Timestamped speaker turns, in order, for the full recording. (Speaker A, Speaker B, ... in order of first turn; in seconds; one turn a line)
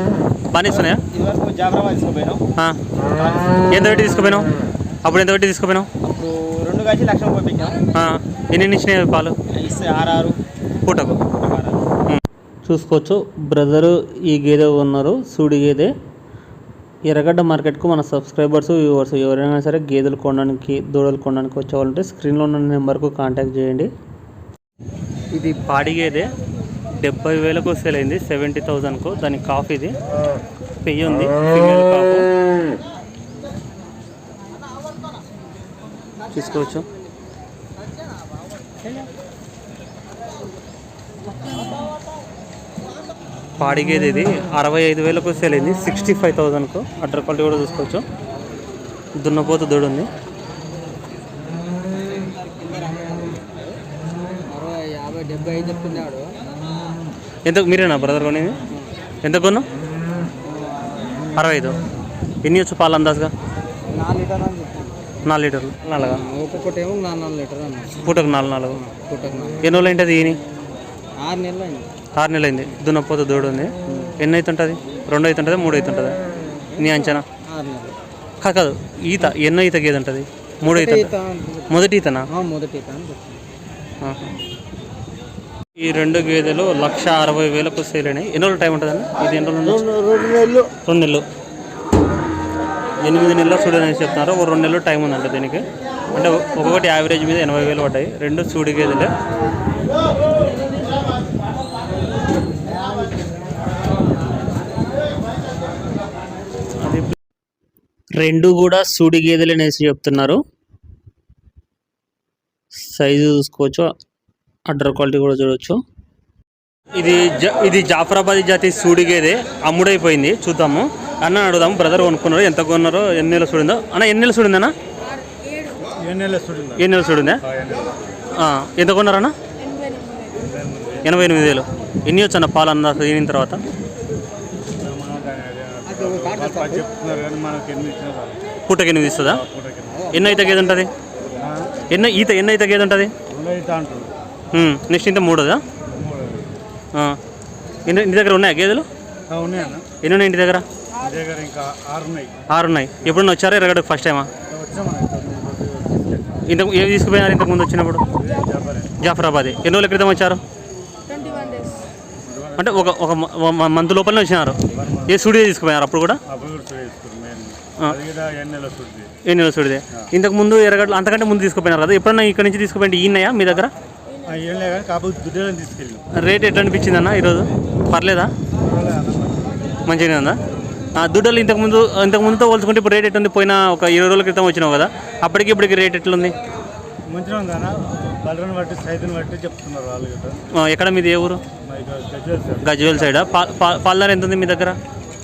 Speaker A: 0.5-1.0
Speaker B: 0.6-2.4
Speaker B: 3.0-3.6
Speaker A: 3.6-4.5
Speaker A: 5.0-5.9
Speaker B: 6.0-7.8
Speaker A: 7.9-9.3
Speaker B: 9.5-10.4
Speaker A: 10.8-11.2
Speaker B: 11.2-11.8
Speaker A: 12.1-15.9
Speaker A: 17.1-23.9
Speaker A: 25.3-26.3
Speaker A: 27.0-29.9
Speaker A: 30.8-32.3
Speaker A: 36.3-36.9
Speaker A: 43.6-48.0
Speaker A: 49.2-50.1
Speaker C: 51.9-53.8
Speaker C: 54.5-56.4
Speaker A: 57.4-58.6
Speaker A: 59.2-59.7
Speaker A: 61.4-61.8
Speaker A: 62.4-63.3
Speaker C: 63.9-65.0
Speaker A: 65.2-66.2
Speaker C: 66.0-68.2
Speaker A: 67.9-68.8
Speaker C: 68.7-69.6
Speaker A: 69.6-70.4
Speaker C: 71.2-71.9
Speaker A: 72.2-76.2
Speaker A: 76.8-77.2
Speaker C: 77.4-78.0
Speaker A: 78.4-81.1
Speaker C: 80.7-83.4
Speaker A: 81.7-82.3
Speaker A: 84.0-84.3
Speaker A: 85.8-90.0
Speaker A: 90.8-91.2
Speaker A: 93.0-99.1
Speaker A: 106.8-107.2
Speaker A: 108.2-110.4
Speaker A: 112.9-113.9
Speaker A: 114.7-115.8
Speaker A: 116.9-124.7
Speaker D: 126.0-126.9
Speaker A: 126.8-127.4
Speaker D: 127.4-127.9
Speaker A: 128.3-129.3
Speaker D: 130.4-131.1
Speaker A: 131.1-133.6
Speaker D: 134.8-138.4
Speaker C: 135.9-136.9
Speaker A: 138.7-139.4
Speaker D: 139.2-140.0
Speaker C: 140.0-140.7
Speaker A: 140.1-140.9
Speaker D: 141.4-141.7
Speaker A: 141.9-143.1
Speaker D: 143.3-144.1
Speaker A: 144.5-145.6
Speaker D: 145.9-146.5
Speaker A: 147.9-148.8
Speaker D: 149.3-149.9
Speaker A: 150.0-150.7
Speaker D: 151.0-152.3
Speaker A: 152.5-154.3
Speaker D: 154.5-156.4
Speaker A: 156.5-158.0
Speaker D: 158.2-159.0
Speaker A: 159.0-160.4
Speaker D: 161.1-162.9
Speaker A: 162.6-166.2
Speaker D: 164.7-165.2
Speaker D: 166.3-169.1
Speaker A: 169.2-173.7
Speaker D: 174.2-176.1
Speaker A: 176.2-178.3
Speaker D: 178.6-179.6
Speaker A: 179.9-180.4
Speaker A: 180.9-186.3
Speaker D: 187.1-190.4
Speaker A: 190.6-191.4
Speaker D: 191.6-193.2
Speaker A: 192.6-194.8